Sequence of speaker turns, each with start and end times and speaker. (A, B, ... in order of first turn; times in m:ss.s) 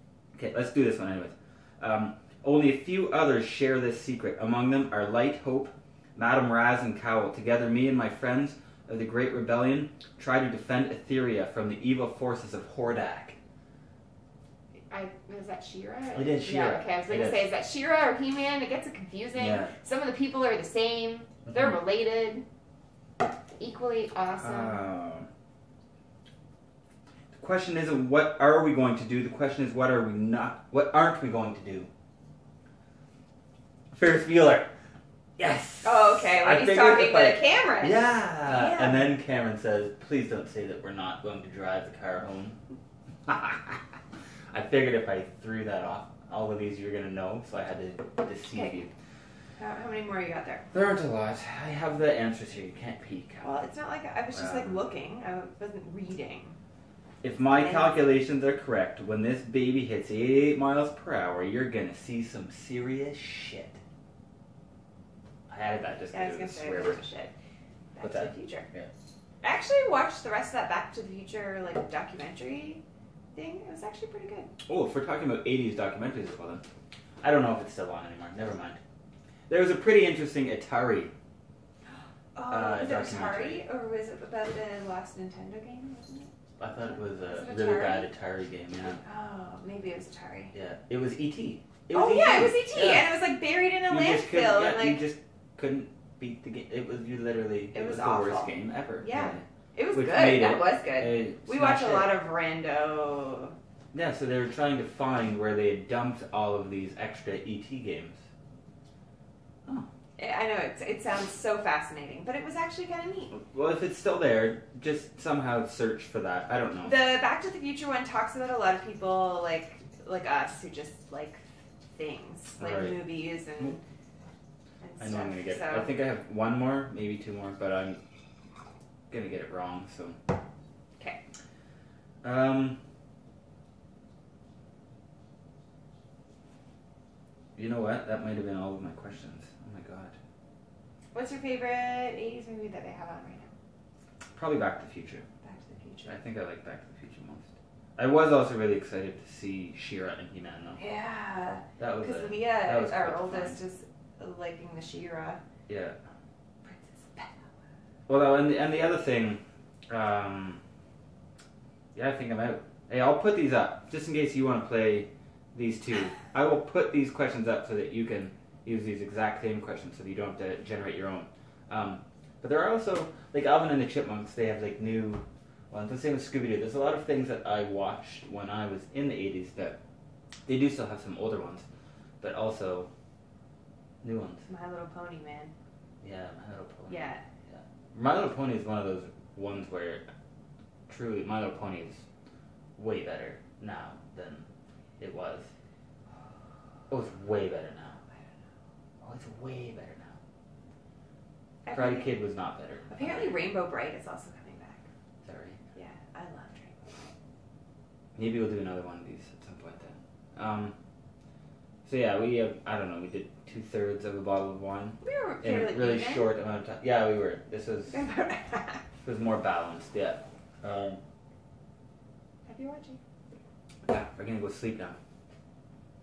0:00.3-0:13.4 A
0:14.9-0:22.4 B
0:16.1-0:17.4 A
0:19.3-0:19.7 A
0:23.6-0:24.9 B
0:24.4-0:25.3 A
0:27.3-0:31.9 A
0:33.9-0:34.7 A
0:35.4-0:42.6 A
0:35.8-0:39.1 B
0:43.2-0:43.8 A
0:44.5-0:48.9 A
0:48.5-0:48.8 B
0:49.6-0:50.6 B
0:50.7-0:53.6 A
0:53.4-0:56.6 B
0:54.3-0:54.9 A
0:57.2-1:03.8 A
0:57.5-0:58.0 B
1:05.5-1:07.0 A
1:06.1-1:07.3 B
1:07.9-1:08.7 B
1:08.0-1:08.9 A
1:09.4-1:12.8 B
1:13.3-1:14.5 B
1:14.6-1:16.6 A
1:17.2-1:18.8 A
1:19.5-1:21.1 A
1:22.3-1:28.1 B
1:22.5-1:23.6 A
1:26.6-1:29.0 A
1:28.9-1:30.5 B
1:30.5-1:33.1 A
1:31.9-1:35.0 B
1:33.9-1:42.1 A
1:37.7-1:43.6 B
1:43.9-1:48.2 A
1:50.2-1:53.3 B
1:53.3-1:57.1 A
1:56.8-2:01.4 B
2:01.9-2:03.8 B
2:02.6-2:03.0 A
2:04.8-2:05.9 B
2:05.0-2:08.0 A
2:09.1-2:10.2 A
2:12.2-2:12.8 A
2:17.6-2:20.2 A
2:21.1-2:23.5 B
2:24.3-2:25.2 A
2:25.4-2:26.1 B
2:26.0-2:30.8 A
2:30.8-2:35.4 B
2:31.8-2:33.6 A
2:35.7-2:36.0 A
2:36.6-2:37.5 B
2:38.1-2:40.6 A
2:41.9-2:59.8 A
3:00.4-3:01.6 A
3:02.2-3:02.9 A
3:04.0-3:04.4 A
3:04.5-3:05.5 B
3:06.0-3:10.0 A
3:06.9-3:07.2 B
3:10.9-3:12.0 A
3:12.8-3:14.4 A
3:15.0-3:15.5 A
3:16.9-3:18.0 A
3:19.0-3:20.1 A
3:21.6-3:22.2 B
3:21.7-3:23.4 A
3:22.9-3:24.8 B
3:25.2-3:25.6 A
3:25.7-3:27.1 B
3:28.2-3:30.7 A
3:31.8-3:38.0 A
3:35.0-3:36.3 B
3:37.9-3:38.8 B
3:39.0-3:41.0 A
3:42.4-3:43.0 B
3:43.8-3:45.0 A